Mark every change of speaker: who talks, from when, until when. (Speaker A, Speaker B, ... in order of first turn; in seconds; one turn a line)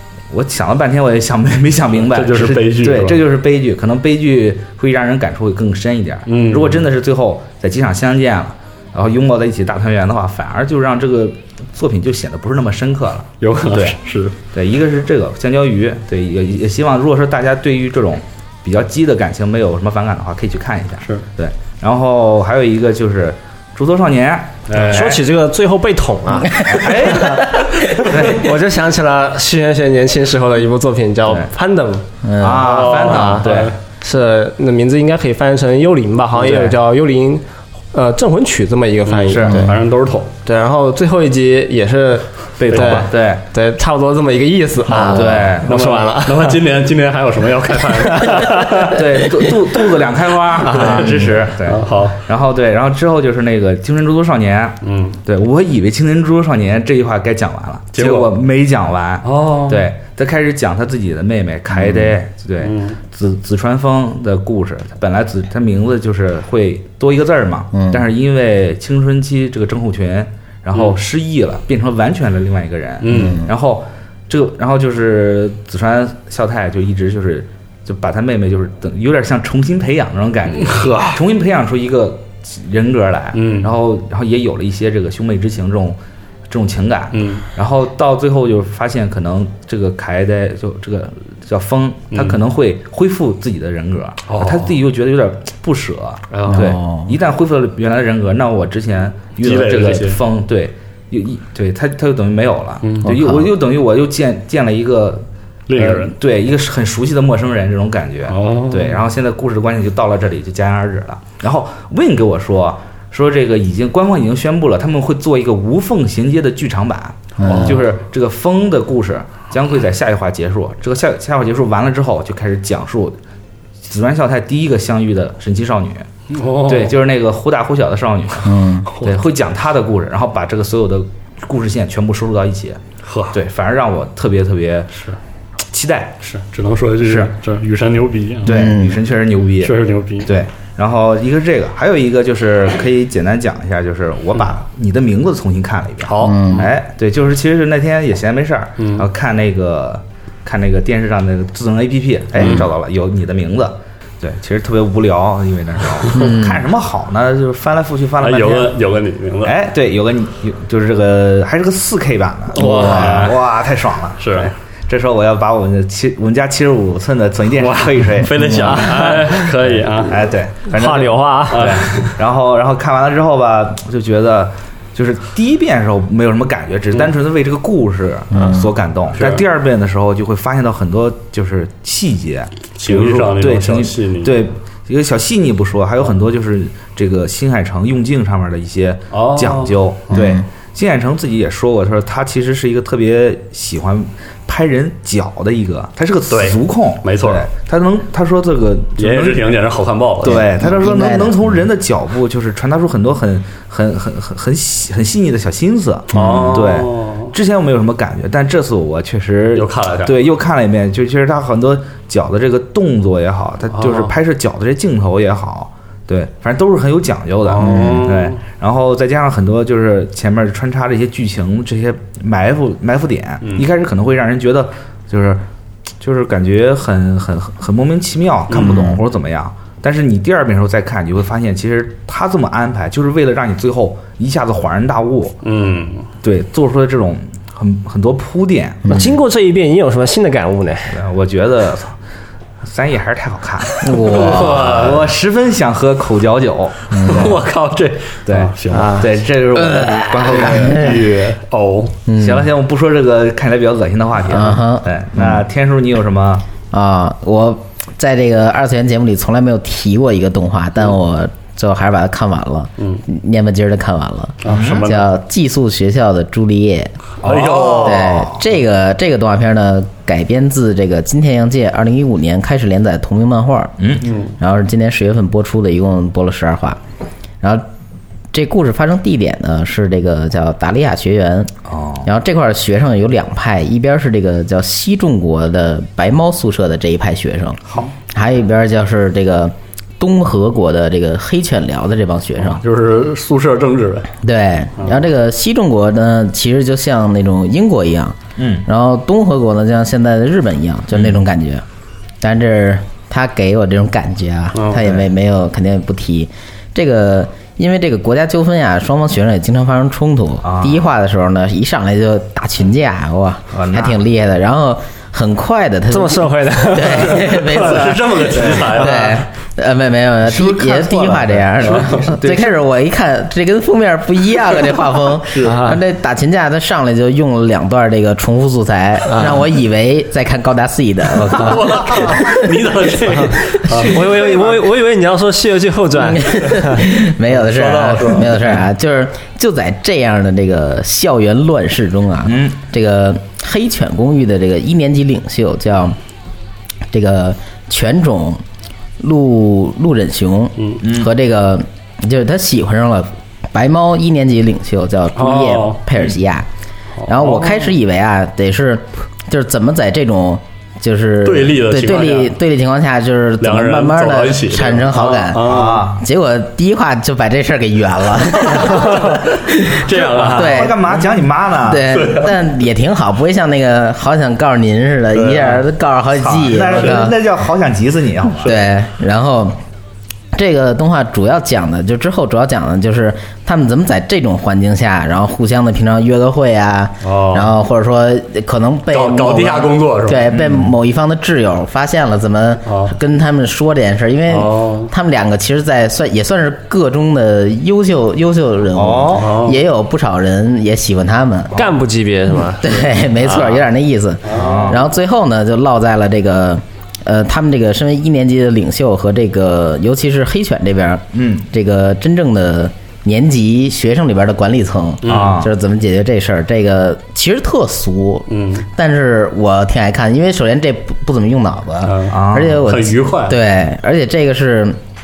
Speaker A: 0.3-14.0
Speaker B: 2.1-3.2
Speaker B: 6.2-6.9
Speaker B: 13.4-14.3
Speaker A: 14.5-25.1
Speaker B: 24.7-25.2
Speaker C: 24.9-27.2
Speaker A: 26.6-28.5
Speaker C: 28.1-32.0
Speaker D: 32.2-32.8
Speaker A: 32.4-33.7
Speaker B: 32.6-33.7
Speaker C: 33.0-33.5
Speaker C: 34.0-39.7
Speaker A: 36.4-36.7
Speaker B: 39.1-40.3
Speaker A: 39.3-39.6
Speaker D: 39.5-39.7
Speaker C: 40.5-46.6
Speaker A: 42.6-43.4
Speaker B: 42.7-43.0
Speaker B: 44.9-49.0
Speaker A: 45.1-45.7
Speaker C: 48.0-49.0
Speaker A: 48.9-105.2
Speaker C: 50.7-51.1
Speaker B: 50.7-52.2
Speaker B: 54.8-55.2
Speaker B: 57.9-58.3
Speaker B: 59.2-59.9
Speaker D: 61.7-62.1
Speaker B: 62.6-63.0
Speaker D: 67.7-68.0
Speaker B: 73.0-73.4
Speaker D: 73.1-73.5
Speaker B: 80.5-81.2
Speaker B: 83.3-83.7
Speaker B: 87.1-87.4
Speaker B: 92.1-92.4
Speaker B: 94.3-94.8
Speaker B: 96.3-96.7
Speaker D: 96.5-97.2
Speaker B: 99.4-100.2
Speaker B: 102.8-103.1
Speaker D: 103.0-103.5
Speaker B: 105.7-106.1
Speaker A: 105.8-123.2
Speaker B: 108.3-109.0
Speaker D: 117.4-117.8
Speaker B: 117.4-117.8
Speaker A: 123.8-126.1
Speaker B: 126.3-127.0
Speaker A: 126.7-132.8
Speaker D: 128.4-128.9
Speaker B: 133.0-133.3
Speaker A: 133.3-134.9
Speaker A: 135.7-136.2
Speaker B: 136.2-138.7
Speaker A: 137.0-137.3
Speaker A: 138.4-158.7
Speaker D: 138.4-139.0
Speaker B: 139.6-140.3
Speaker B: 146.0-146.7
Speaker D: 146.2-146.7
Speaker B: 148.8-149.1
Speaker B: 152.4-152.7
Speaker D: 156.1-156.6
Speaker B: 158.2-159.6
Speaker A: 159.4-168.7
Speaker B: 162.5-163.4
Speaker D: 162.6-163.1
Speaker B: 164.2-164.5
Speaker B: 167.6-170.3
Speaker C: 168.6-169.4
Speaker A: 169.7-199.5
Speaker C: 170.7-171.8
Speaker B: 171.5-172.1
Speaker D: 178.3-178.7
Speaker B: 179.1-179.4
Speaker B: 182.8-184.4
Speaker B: 189.1-190.3
Speaker D: 190.1-190.4
Speaker B: 196.3-197.4
Speaker B: 199.0-200.5
Speaker A: 200.2-225.4
Speaker D: 200.4-201.6
Speaker B: 206.1-207.3
Speaker D: 206.1-206.6
Speaker B: 209.5-210.1
Speaker B: 213.7-214.1
Speaker B: 217.4-218.4
Speaker D: 217.6-218.1
Speaker A: 226.0-235.3
Speaker B: 228.5-228.9
Speaker D: 228.6-228.9
Speaker B: 235.4-236.1
Speaker A: 236.2-238.9
Speaker D: 238.8-239.2
Speaker C: 238.9-241.0
Speaker A: 240.9-241.9
Speaker A: 242.6-247.4
Speaker D: 243.8-244.7
Speaker B: 243.9-245.1
Speaker D: 246.9-247.4
Speaker B: 247.0-249.1
Speaker A: 248.3-250.9
Speaker C: 248.7-249.1
Speaker D: 249.6-251.0
Speaker B: 250.1-252.0
Speaker D: 252.1-252.5
Speaker A: 252.2-256.4
Speaker D: 254.2-255.4
Speaker D: 256.7-266.9
Speaker B: 264.4-265.0
Speaker A: 264.5-264.9
Speaker B: 267.2-268.2
Speaker A: 267.2-268.3
Speaker D: 267.8-276.8
Speaker A: 273.8-274.1
Speaker B: 274.0-274.3
Speaker D: 278.3-281.5
Speaker A: 281.7-282.1
Speaker D: 282.0-287.6
Speaker D: 288.1-292.6
Speaker B: 292.6-294.1
Speaker D: 294.2-301.6
Speaker A: 298.4-298.6
Speaker D: 302.2-332.6
Speaker B: 304.5-305.0
Speaker A: 310.4-310.8
Speaker A: 313.5-314.0
Speaker C: 315.9-317.6
Speaker B: 317.3-319.2
Speaker A: 318.3-318.9
Speaker A: 320.3-322.5
Speaker B: 321.6-322.1
Speaker B: 325.3-325.6
Speaker C: 325.4-325.8
Speaker C: 329.1-329.4
Speaker B: 331.3-334.6
Speaker D: 333.2-333.9
Speaker C: 333.8-336.8
Speaker D: 336.0-346.0
Speaker B: 337.3-338.6
Speaker A: 342.2-342.6
Speaker D: 346.9-348.4
Speaker D: 349.0-356.5
Speaker A: 350.8-351.1
Speaker B: 355.1-355.8
Speaker B: 357.0-357.7
Speaker D: 357.1-370.9
Speaker B: 361.2-362.4
Speaker B: 363.4-365.9
Speaker A: 365.4-366.0
Speaker B: 368.5-371.0
Speaker A: 370.2-371.9
Speaker D: 371.6-377.2
Speaker B: 371.9-372.4
Speaker B: 375.1-375.6
Speaker A: 376.2-378.5
Speaker B: 376.6-377.0
Speaker D: 378.4-379.6
Speaker D: 380.3-401.6
Speaker B: 387.0-387.5
Speaker B: 388.9-390.3
Speaker A: 390.3-390.7
Speaker B: 392.6-392.9
Speaker B: 394.3-394.9
Speaker A: 398.7-399.4
Speaker B: 399.1-399.6
Speaker C: 401.5-403.6
Speaker D: 402.5-424.8
Speaker B: 404.2-404.8
Speaker A: 404.3-404.8
Speaker A: 411.1-411.5
Speaker B: 415.0-415.4
Speaker A: 415.1-415.5
Speaker B: 418.3-418.7
Speaker B: 421.8-423.4
Speaker A: 422.1-422.7